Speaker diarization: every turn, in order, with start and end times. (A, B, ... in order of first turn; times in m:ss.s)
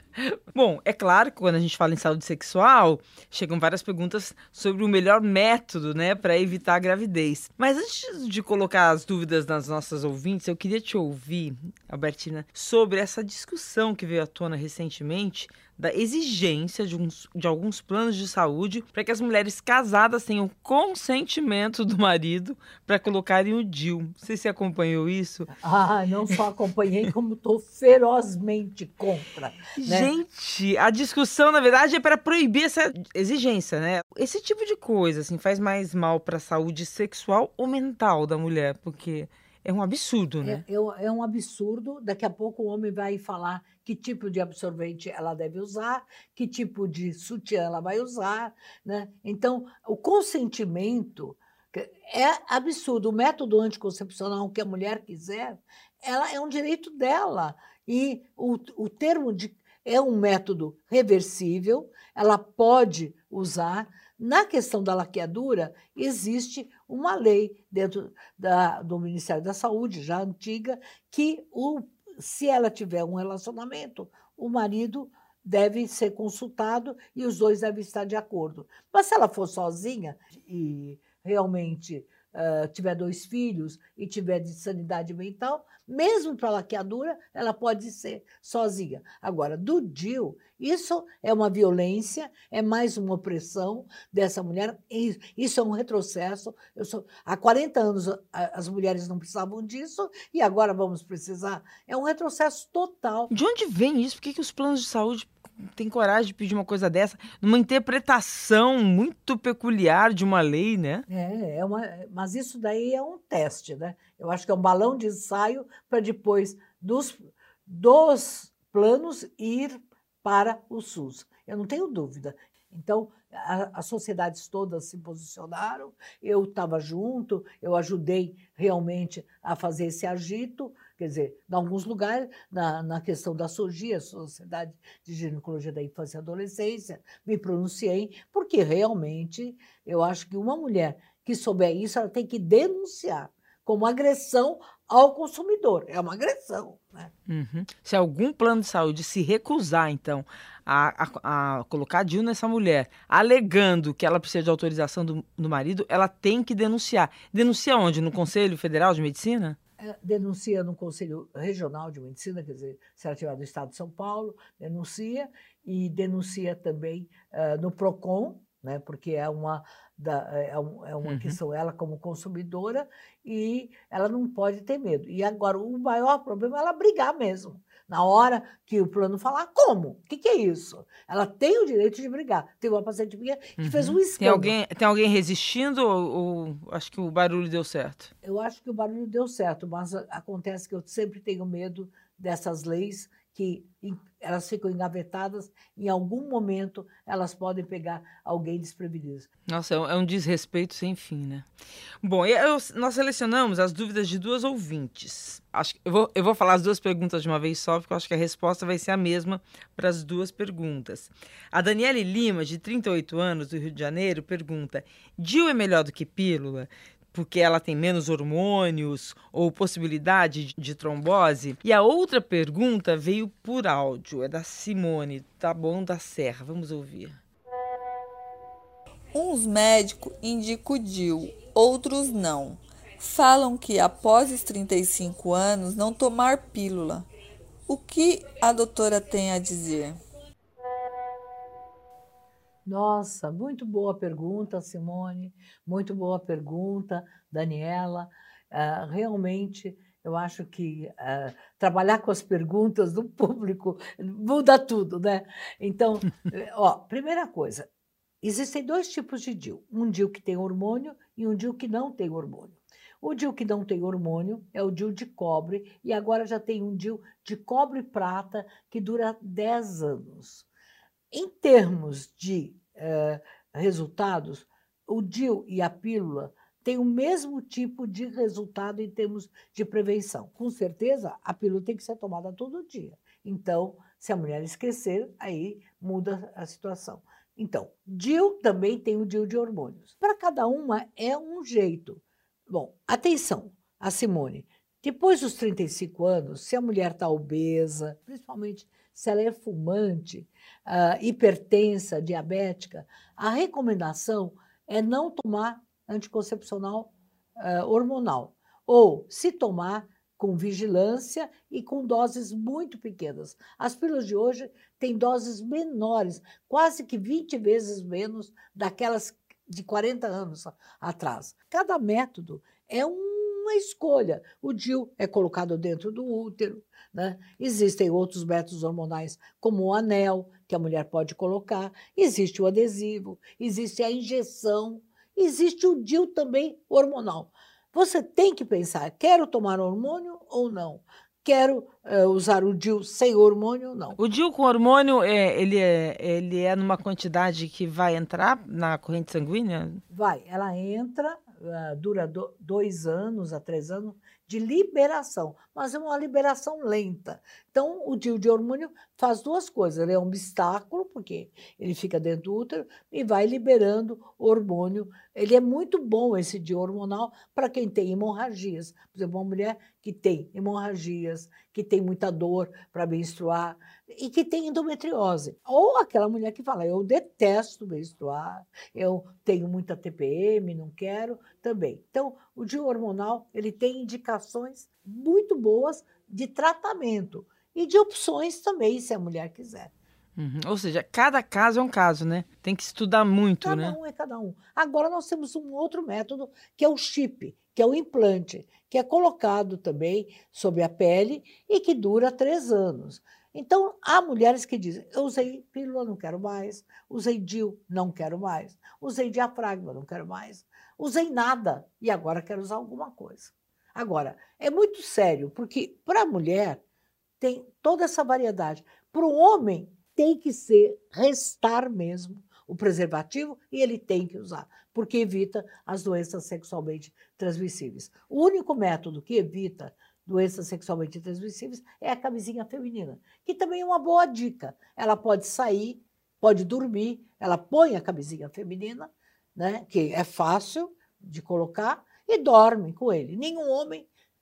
0:00.2-0:25.5 A
0:25.5-0:30.1 B
0:29.8-0:40.6 A
0:40.4-1:43.3 B
1:43.3-1:51.1 A
1:51.1-2:27.1 B
2:27.3-2:39.6 A
2:39.8-3:04.6 B
2:51.0-2:51.4 A
3:03.6-3:08.1 A
3:08.2-3:19.3 B
3:19.5-3:21.5 A
3:22.0-3:47.2 A
3:49.1-3:57.1 C
3:57.7-4:00.0 C
4:02.6-4:17.7 B
4:18.2-4:30.4 B
4:31.1-5:44.0 B
5:44.0-5:49.8 A
5:49.9-6:29.7 B
6:30.2-6:33.8 A
6:33.4-6:56.6 B
6:57.2-7:23.9 B